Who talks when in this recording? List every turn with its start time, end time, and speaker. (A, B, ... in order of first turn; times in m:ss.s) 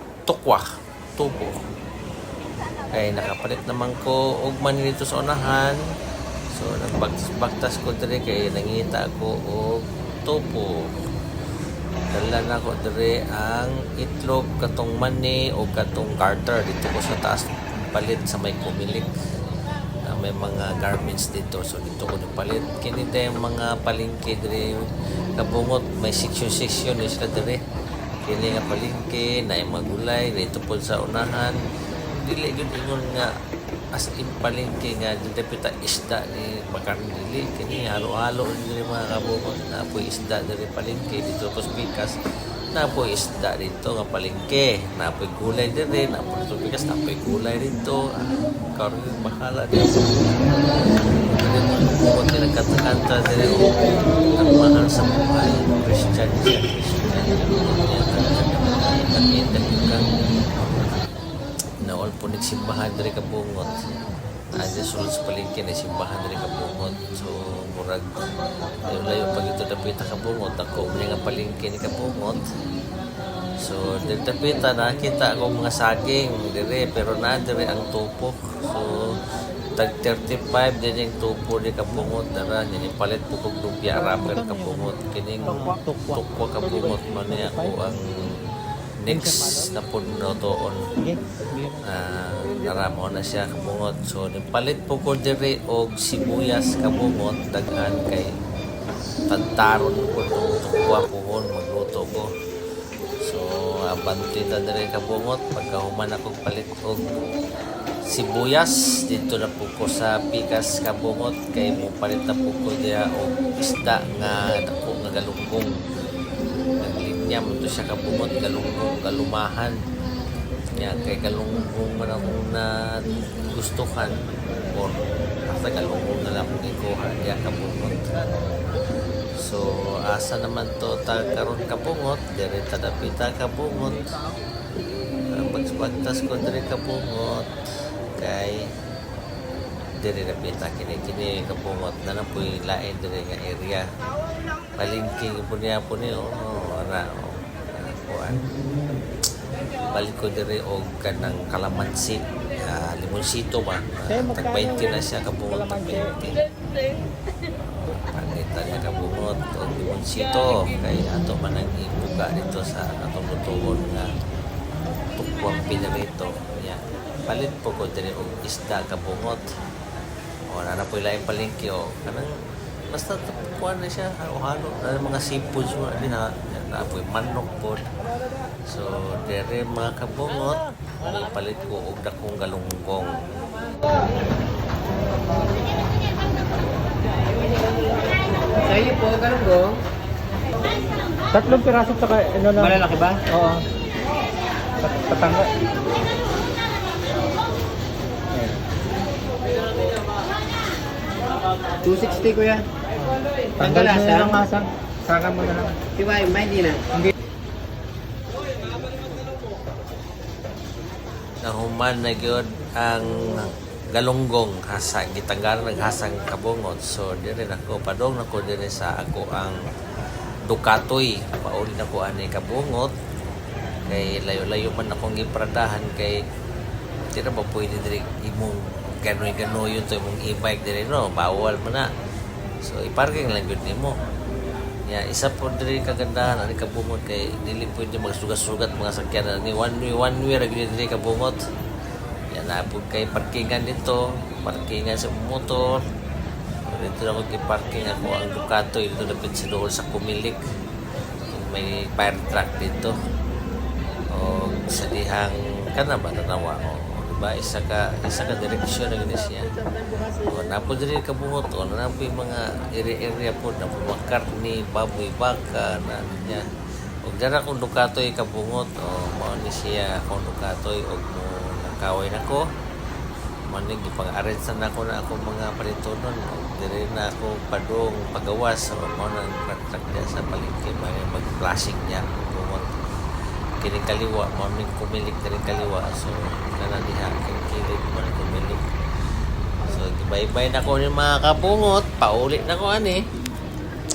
0:00.3-0:00.6 A
0:01.2-0:01.6 A
0:02.9-0:05.8 A
0:06.5-0:10.7 A
0:12.1-0:19.1 A
0:20.1-0:24.9 A
0:25.4-0:27.6 A
0:28.3-0:33.3 A
0:34.0-0:42.2 A
0:42.7-0:48.0 A
0:48.8-0:53.9 A
0:54.4-1:01.1 A
1:01.8-1:03.7 A
1:04.6-1:12.4 A
1:13.6-1:18.9 A
1:19.8-1:28.4 A
1:24.5-1:24.8 B
1:29.0-1:30.8 A
1:31.8-1:38.3 A
1:39.3-1:42.3 A
1:43.3-1:47.2 A
1:48.1-1:55.7 A
1:56.8-1:59.8 A
2:00.8-2:04.1 A
2:04.7-2:08.1 A
2:09.4-2:14.0 A
2:15.3-2:17.5 A
2:18.2-2:18.6 A
2:20.0-2:23.9 A
2:24.8-2:29.0 A
2:29.9-2:36.4 A
2:37.8-2:44.1 A
2:45.2-2:49.4 A
2:50.5-2:52.3 A
2:52.9-2:57.8 A
2:58.7-3:03.2 A
3:08.6-3:09.8 C
3:11.4-3:12.5 B
3:12.6-3:13.2 C
3:15.0-3:15.4 B
3:21.8-3:22.7 C
3:23.6-3:24.4 C
3:23.8-3:25.8 B
3:25.9-3:26.8 C
3:31.4-3:39.6 A
3:40.5-3:42.9 A
3:43.9-3:46.2 A
3:47.1-3:51.9 A
3:52.6-3:53.9 A
3:54.9-4:01.4 A
4:02.3-4:05.8 A
4:06.7-4:10.4 A
4:11.3-4:12.9 A
4:14.1-4:19.5 A
4:20.2-4:26.4 A
4:27.1-4:32.4 A
4:33.5-4:42.8 A
4:43.6-4:48.6 A
4:49.6-4:53.0 A